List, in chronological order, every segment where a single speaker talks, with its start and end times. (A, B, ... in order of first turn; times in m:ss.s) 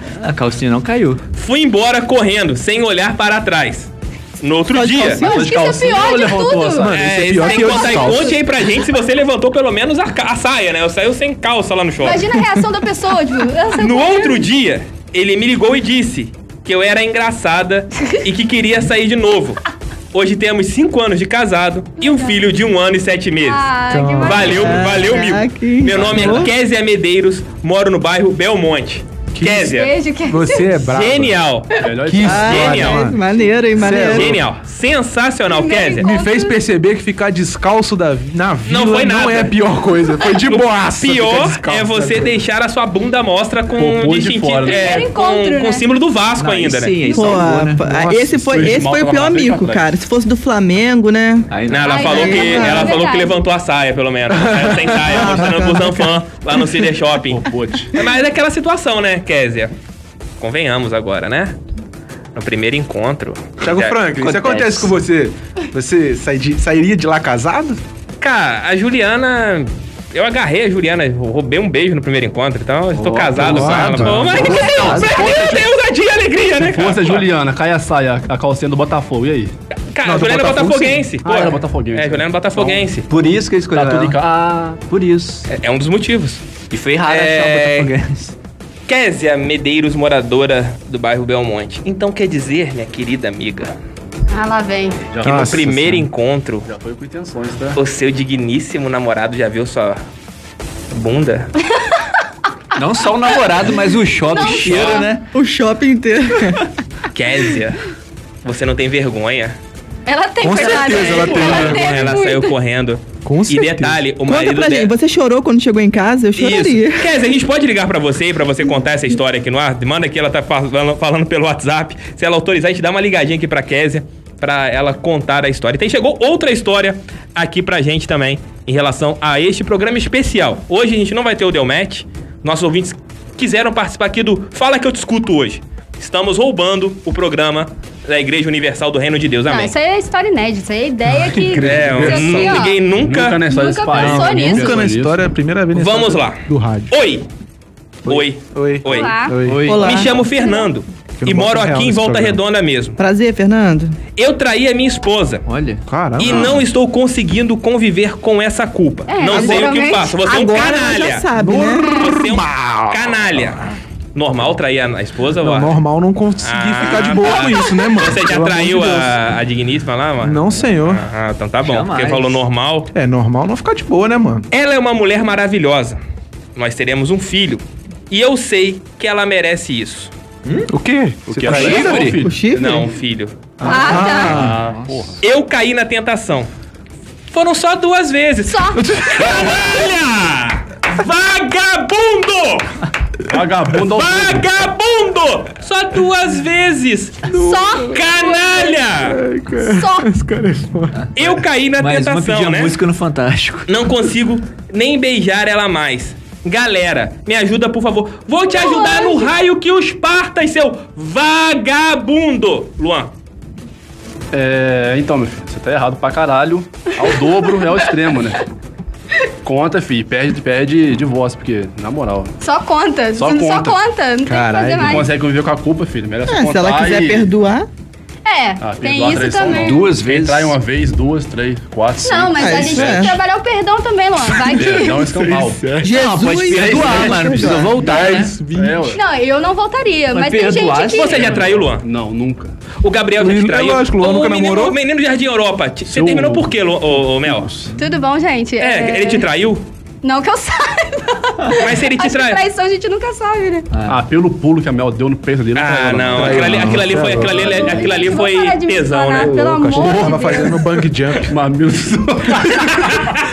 0:00.2-0:01.2 A
0:01.4-0:05.2 B
0:04.7-0:05.5 C
0:05.2-0:07.0 D
0:05.2-0:06.9 E
0:06.8-0:08.4 F
0:06.9-0:12.4 B
0:07.5-0:08.3 E
0:12.0-0:14.4 E
0:13.8-0:19.6 B
0:20.1-0:23.7 B
0:22.0-0:22.4 E
0:23.4-0:24.8 E
0:23.9-0:24.8 F
0:24.2-0:29.9 B
0:24.4-0:26.5 C
0:29.3-0:31.4 F
0:29.6-0:30.8 E
0:30.9-0:31.8 B
0:31.8-0:33.0 D
0:32.1-0:33.2 F
0:32.2-0:34.4 C
0:32.4-0:33.1 B
0:33.8-0:34.4 F
0:34.1-0:36.1 B
0:35.5-0:36.6 E
0:36.0-0:42.4 F
0:38.7-0:39.6 B
0:40.3-0:47.0 B
0:43.8-0:45.0 D
0:44.7-0:45.8 E
0:46.4-0:47.8 A
0:47.1-0:51.5 C
0:47.8-0:48.8 F
0:48.5-0:49.9 D
0:51.5-0:52.1 A
0:51.7-0:59.7 B
0:51.8-0:53.4 E
0:52.0-0:53.0 C
0:54.3-0:55.6 F
0:55.1-0:56.1 C
0:57.3-0:57.9 D
1:00.4-1:01.6 B
1:02.4-1:04.0 B
1:03.6-1:07.8 F
1:04.2-1:04.9 A
1:08.2-1:17.2 B
1:13.0-1:15.5 A
1:13.4-1:15.6 D
1:13.4-1:14.6 F
1:16.6-1:19.5 D
1:19.9-1:23.1 B
1:20.0-1:21.1 F
1:21.2-1:24.9 D
1:23.1-1:24.2 A
1:24.8-1:25.5 A
1:25.5-1:26.4 B
1:26.7-1:28.3 A
1:27.0-1:27.9 B
1:28.9-1:33.7 B
1:34.3-1:35.0 E
1:35.1-1:35.6 D
1:35.2-1:36.1 F
1:35.2-1:36.7 B
1:36.6-1:37.8 D
1:37.8-1:40.0 B
1:40.9-1:41.5 B
1:42.8-1:45.3 A
1:44.4-1:45.0 E
1:44.5-1:45.1 B
1:45.3-1:46.7 C
1:47.1-1:47.8 B
1:48.4-1:49.6 B
1:50.1-1:52.5 E
1:50.4-1:52.1 F
1:50.9-1:54.9 B
1:53.2-1:54.0 F
1:54.3-1:57.1 C
1:56.4-2:19.7 B
2:19.5-2:22.8 E
2:21.2-2:22.6 F
2:21.6-2:23.4 B
2:22.9-2:25.2 D
2:23.5-2:24.8 E
2:23.9-2:26.9 F
2:25.7-2:27.3 B
2:28.0-2:29.7 F
2:28.1-2:33.0 B
2:28.8-2:29.4 E
2:29.4-2:29.9 A
2:29.7-2:30.1 C
2:30.4-2:30.7 E
2:31.2-2:32.4 F
2:33.0-2:34.0 C
2:34.2-2:35.4 B
2:35.5-2:35.8 A
2:35.9-2:36.6 F
2:36.2-2:41.3 B
2:39.1-2:40.1 E
2:39.3-2:42.0 C
2:41.4-2:43.2 F
2:41.9-2:43.6 B
2:44.2-2:45.8 B
2:45.4-2:49.2 F
2:46.4-2:52.9 B
2:50.2-2:51.0 F
2:51.6-2:52.4 A
2:52.9-2:54.5 F
2:54.5-2:56.0 B
2:56.6-3:00.1 B
3:00.7-3:02.2 F
3:01.3-3:02.6 D
3:01.5-3:02.2 A
3:01.6-3:03.4 B
3:02.2-3:02.9 C
3:03.6-3:04.6 F
3:03.7-3:04.4 E
3:03.8-3:04.9 A
3:04.3-3:05.2 D
3:05.2-3:06.5 B
3:07.3-3:12.7 B
3:08.5-3:08.9 E
3:08.9-3:09.7 F
3:13.3-3:14.5 D
3:13.9-3:17.3 B
3:17.3-3:17.9 F
3:17.3-3:18.8 E
3:17.8-3:19.2 B
3:19.0-3:21.0 F
3:19.6-3:20.2 E
3:21.2-3:22.8 B
3:21.8-3:23.7 A
3:23.7-3:33.1 B
3:28.5-3:29.3 E
3:34.3-3:38.4 D
3:39.4-3:42.3 D
3:42.4-3:45.1 E
3:43.2-3:43.8 D
3:44.2-3:45.1 F
3:44.8-3:47.3 D
3:46.3-3:47.7 C
3:48.2-3:49.8 E
3:48.6-3:53.2 D
3:49.5-3:50.5 A
3:52.0-3:55.1 E
3:52.4-3:53.2 C
3:54.5-3:55.8 D
3:55.2-3:56.0 F
3:55.8-3:57.8 C
3:55.9-3:58.3 A
3:56.5-3:59.0 D
3:56.8-3:57.1 F
3:57.7-3:58.9 F
3:58.9-4:01.4 E
4:00.1-4:01.3 A
4:00.9-4:01.8 B
4:01.2-4:02.5 D
4:02.8-4:07.5 B
4:03.2-4:04.8 F
4:05.9-4:07.7 D
4:07.8-4:09.3 E
4:08.6-4:09.7 B
4:10.0-4:13.7 E
4:11.6-4:12.4 B
4:13.7-4:14.0 A
4:13.8-4:17.7 D
4:15.6-4:19.4 B
4:16.1-4:17.5 F
4:17.2-4:20.7 E
4:19.2-4:21.4 F
4:21.3-4:22.8 D